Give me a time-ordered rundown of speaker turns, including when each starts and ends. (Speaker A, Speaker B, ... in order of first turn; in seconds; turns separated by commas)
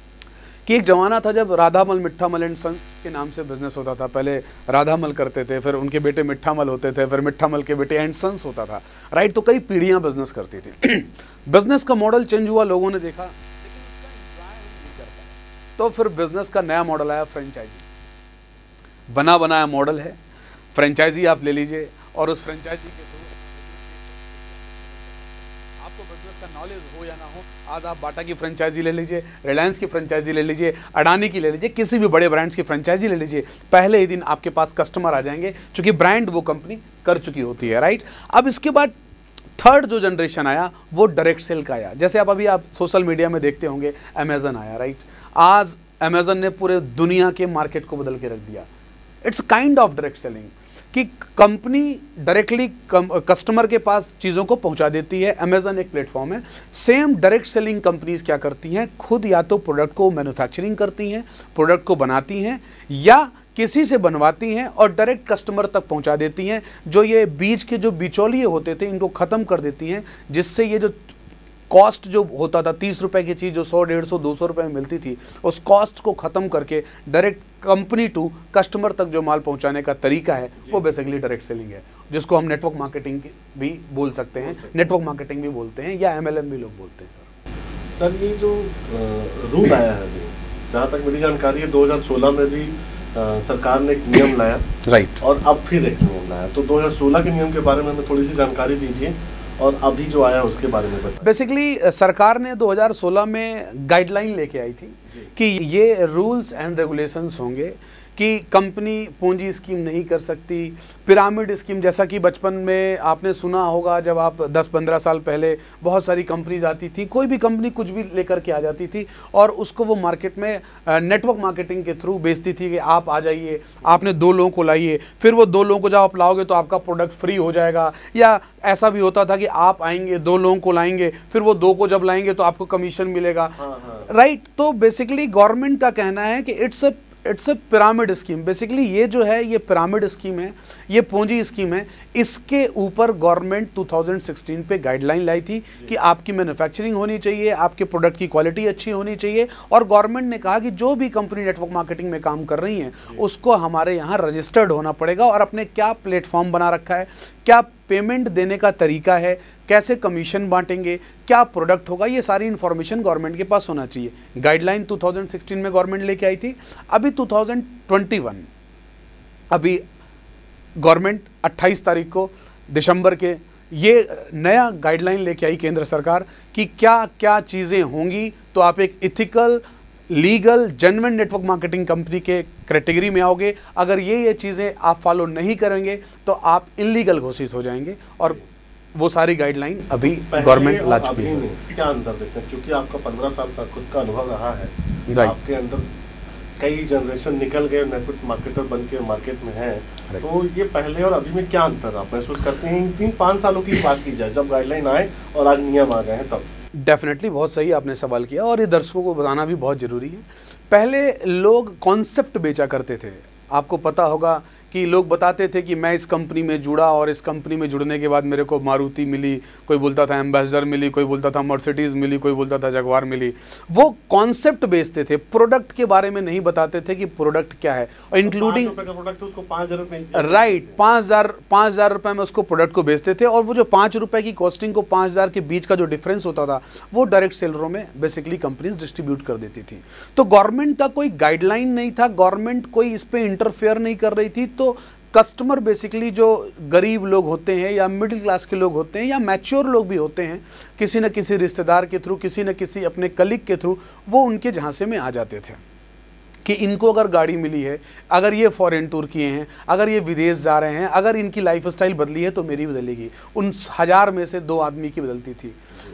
Speaker A: 0.7-17.9, Speaker A: 19.1-20.2, Speaker A: 20.8-39.0, Speaker A: 39.6-48.7, Speaker A: 49.2-71.1, Speaker A: 71.7-87.3, Speaker B: 84.4-84.9, Speaker B: 88.0-94.7, Speaker A: 94.9-95.2, Speaker B: 95.2-101.3, Speaker A: 101.2-168.5, Speaker B: 133.6-134.1, Speaker A: 169.5-169.8, Speaker A: 170.8-188.4, Speaker A: 188.9-191.4, Speaker B: 190.0-195.9, Speaker A: 195.1-195.3, Speaker B: 196.6-206.5, Speaker A: 206.8-228.8, Speaker B: 228.2-230.8, Speaker A: 230.1-255.6, Speaker A: 256.4-265.6